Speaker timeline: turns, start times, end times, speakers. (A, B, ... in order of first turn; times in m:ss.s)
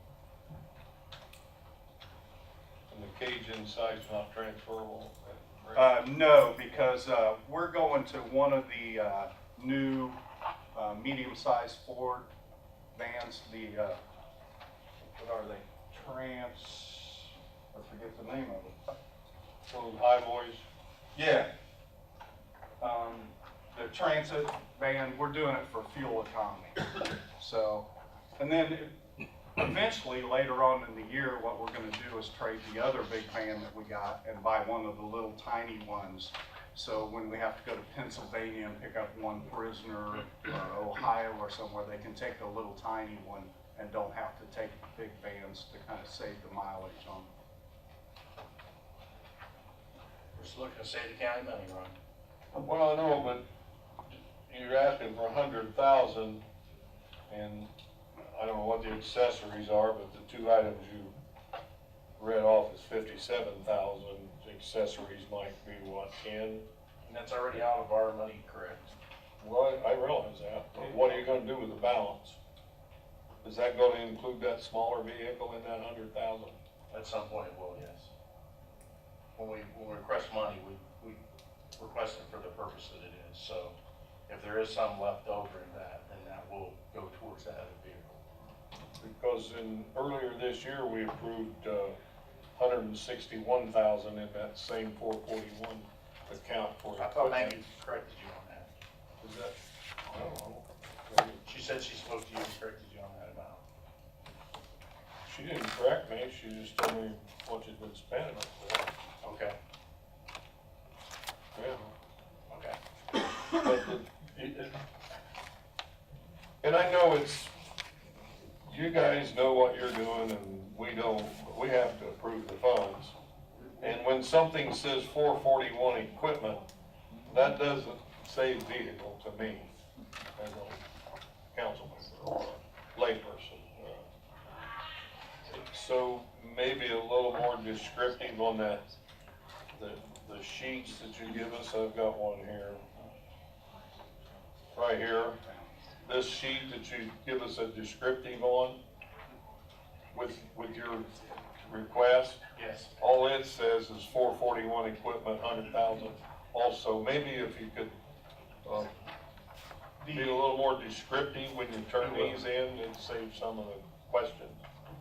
0:02.9-0:05.9 A
0:05.7-0:10.2 B
0:10.7-0:12.3 B
0:12.9-0:14.0 B
0:15.1-0:18.7 B
0:19.7-0:20.6 A
0:21.1-0:21.5 B
0:22.8-0:28.9 B
0:29.6-0:47.3 B
0:50.3-0:51.9 C
0:52.6-0:53.4 A
0:54.1-0:56.4 A
0:57.3-1:01.1 A
1:02.2-1:06.6 A
1:07.0-1:08.9 C
1:09.4-1:12.4 A
1:13.4-1:16.6 A
1:16.9-1:18.1 C
1:19.4-1:21.2 C
1:21.8-1:23.8 C
1:24.3-1:28.1 C
1:29.0-1:32.0 A
1:32.6-1:37.6 A
1:37.0-1:38.7 C
1:39.2-1:41.4 A
1:41.4-1:43.6 C
1:45.2-1:48.9 A
1:49.2-1:49.6 C
1:51.5-1:51.9 A
1:52.5-1:52.8 C
1:53.5-1:54.7 A
1:56.6-1:57.5 A
1:58.6-2:03.1 A
2:03.8-2:06.6 A
2:07.2-2:09.7 A
2:10.4-2:10.8 A
2:11.5-2:14.0 A
2:15.4-2:18.8 A
2:19.7-2:22.8 A
2:24.7-2:25.4 A
2:26.0-2:28.8 A
2:30.1-2:32.4 A
2:32.5-2:32.9 C
2:33.0-2:37.9 A
2:38.6-2:38.9 A
2:40.0-2:40.4 B
2:40.1-2:44.6 A
2:42.0-2:42.4 C